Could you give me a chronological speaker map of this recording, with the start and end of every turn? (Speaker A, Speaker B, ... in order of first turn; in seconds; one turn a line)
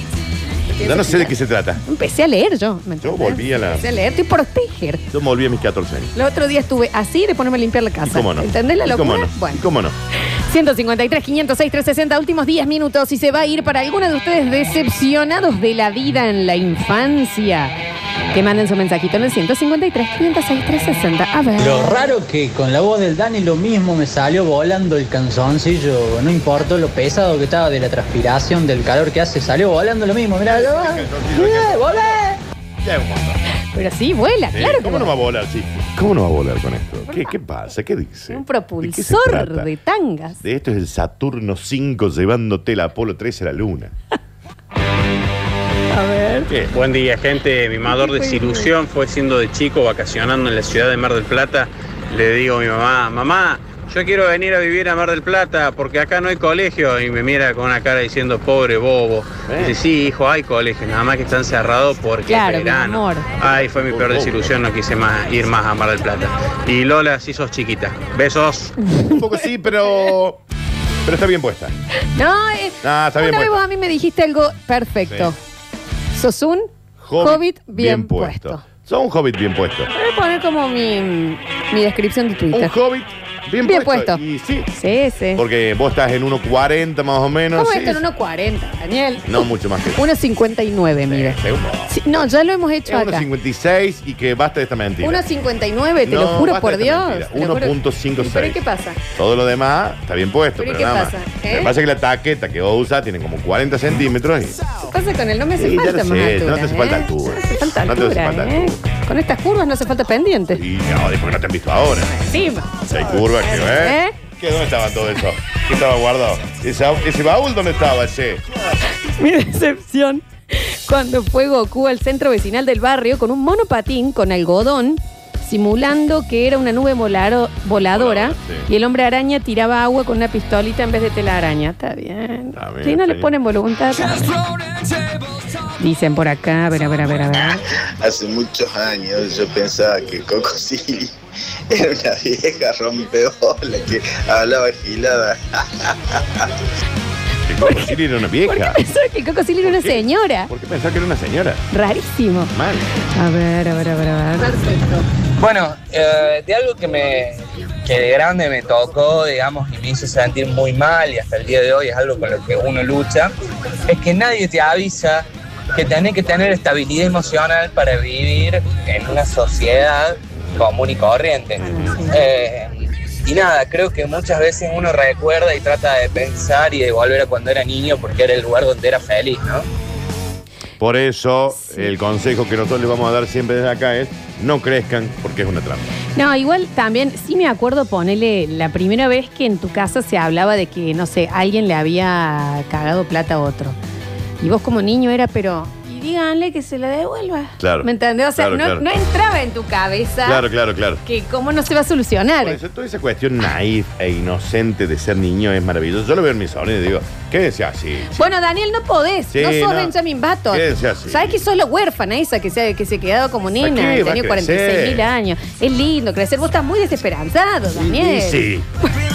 Speaker A: 0.7-5.0
Speaker B: 0.8-1.8
Speaker B: 3.0-3.9
Speaker B: 5.1-6.1
Speaker A: 6.2-9.6
Speaker B: 8.0-9.9
Speaker A: 10.5-17.8
Speaker A: 18.3-22.0
Speaker C: 21.6-32.4
Speaker B: 30.4-32.2
Speaker B: 32.8-33.4
Speaker A: 33.7-35.1
Speaker B: 34.5-39.7
Speaker A: 37.1-37.3
Speaker A: 38.3-40.4
Speaker B: 40.4-43.9
Speaker A: 45.9-46.5
Speaker D: 46.7-68.8
Speaker A: 47.9-48.7
Speaker B: 59.5-59.8
Speaker A: 62.3-63.3
Speaker B: 63.4-64.6
Speaker A: 68.8-69.2
Speaker B: 69.1-70.4
Speaker A: 69.8-70.1
Speaker B: 71.0-71.8
Speaker A: 72.2-75.4
Speaker B: 72.8-73.6
Speaker B: 75.1-75.3
Speaker A: 76.1-78.6
Speaker B: 77.0-79.9
Speaker A: 79.9-82.7
Speaker B: 82.5-84.7
Speaker A: 83.6-84.2
Speaker A: 84.7-85.4
Speaker B: 85.4-88.0
Speaker A: 87.5-91.4
Speaker B: 89.3-90.1
Speaker B: 91.1-92.2
Speaker A: 91.9-93.3
Speaker B: 92.9-95.2
Speaker A: 95.0-99.0
Speaker B: 96.0-98.6
Speaker B: 99.2-104.6
Speaker A: 100.6-101.7
Speaker A: 104.8-110.6
Speaker B: 105.6-108.8
Speaker B: 110.5-112.2
Speaker A: 112.2-112.7
Speaker B: 112.9-118.4
Speaker A: 113.6-114.2
Speaker A: 119.0-134.3
Speaker B: 127.9-128.7
Speaker B: 132.6-133.3
Speaker A: 135.8-137.6
Speaker E: 138.0-141.1
Speaker E: 141.7-146.4
Speaker B: 147.5-148.8
Speaker A: 147.6-150.5
Speaker B: 149.6-151.7
Speaker A: 151.7-152.5
Speaker B: 152.5-152.8
Speaker A: 153.2-155.0
Speaker F: 155.4-163.3
Speaker F: 163.9-179.7
Speaker A: 171.7-172.1
Speaker B: 180.8-186.0
Speaker A: 181.6-181.9
Speaker A: 186.2-193.8
Speaker A: 194.4-200.4
Speaker B: 197.6-198.8
Speaker B: 200.2-201.0
Speaker A: 201.1-202.6
Speaker B: 202.4-208.2
Speaker A: 208.1-218.5
Speaker B: 209.3-209.9
Speaker B: 210.5-211.4
Speaker B: 213.6-215.1
Speaker B: 217.8-218.7